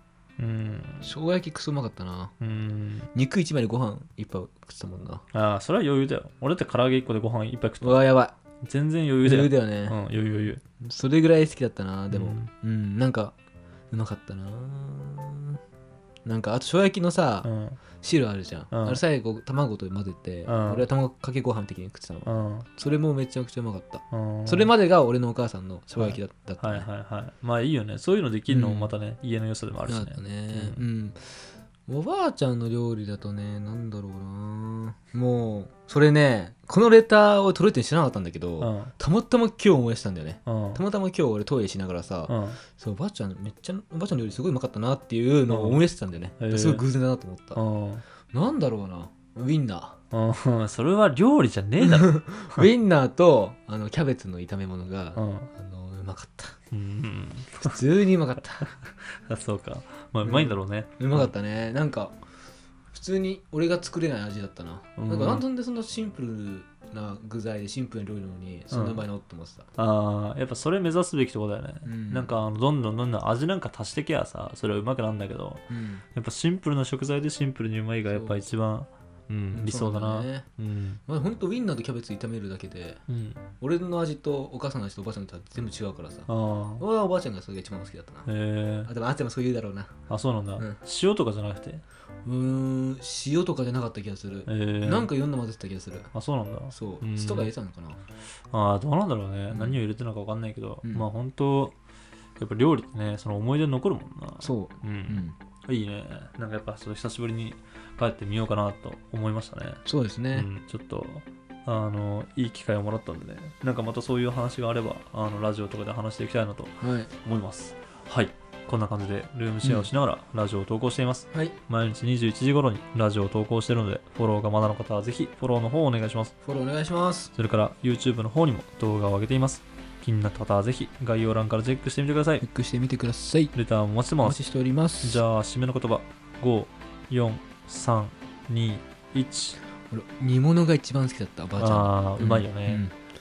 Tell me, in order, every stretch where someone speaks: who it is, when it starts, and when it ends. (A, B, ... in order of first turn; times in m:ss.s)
0:00.4-0:01.1 A
0:01.0-0:02.3 B
0:02.4-0:03.1 A
0:03.1-0:05.2 B
0:05.3-0:08.1 A
0:07.8-0:08.3 B
0:08.6-0:10.6 A
0:09.2-0:10.0 B
0:10.8-0:13.3 B
0:12.1-0:12.5 A
0:13.9-0:15.6 B
0:16.2-0:17.5 B
0:17.4-0:17.8 A
0:18.0-0:26.9 B
0:18.7-0:19.0 A
0:20.5-0:20.8 A
0:22.2-0:22.6 A
0:24.1-0:24.7 A
0:26.0-0:30.8 A
0:28.5-0:28.9 B
0:29.9-0:31.3 B
0:31.9-0:47.6 B
0:38.6-0:38.9 A
0:40.4-0:40.8 A
0:42.3-0:42.6 A
0:45.5-0:45.8 A
0:46.4-0:46.8 A
0:47.5-0:48.0 A
0:48.3-0:50.0 B
0:50.1-0:52.6 A
0:51.8-0:56.5 B
0:55.2-0:55.5 A
0:56.7-0:57.8 A
0:57.6-0:58.7 B
0:58.6-1:01.3 A
1:00.2-1:02.1 B
1:02.9-1:09.7 B
1:05.0-1:05.4 A
1:08.7-1:09.0 A
1:09.8-1:21.0 A
1:11.8-1:12.3 B
1:15.7-1:16.0 B
1:18.1-1:18.4 B
1:19.5-1:20.5 B
1:21.1-1:23.0 B
1:23.1-1:23.4 A
1:23.6-1:26.3 B
1:26.3-1:26.8 A
1:26.8-1:28.3 B
1:28.3-1:28.9 A
1:28.8-1:29.9 B
1:30.1-1:31.8 A
1:32.2-1:36.1 B
1:34.5-1:35.1 A
1:36.1-1:37.5 A
1:36.7-1:38.0 B
1:38.5-1:41.8 A
1:39.5-1:39.8 B
1:42.4-2:06.3 A
1:44.4-1:45.4 B
1:49.8-1:50.5 B
1:56.8-1:57.1 B
1:59.6-1:59.9 B
2:06.4-2:07.3 B
2:07.3-2:12.4 A
2:12.4-2:13.5 B
2:13.5-2:14.4 A
2:14.2-2:15.2 B
2:15.0-2:19.6 A
2:19.9-2:22.9 B
2:21.6-2:22.8 A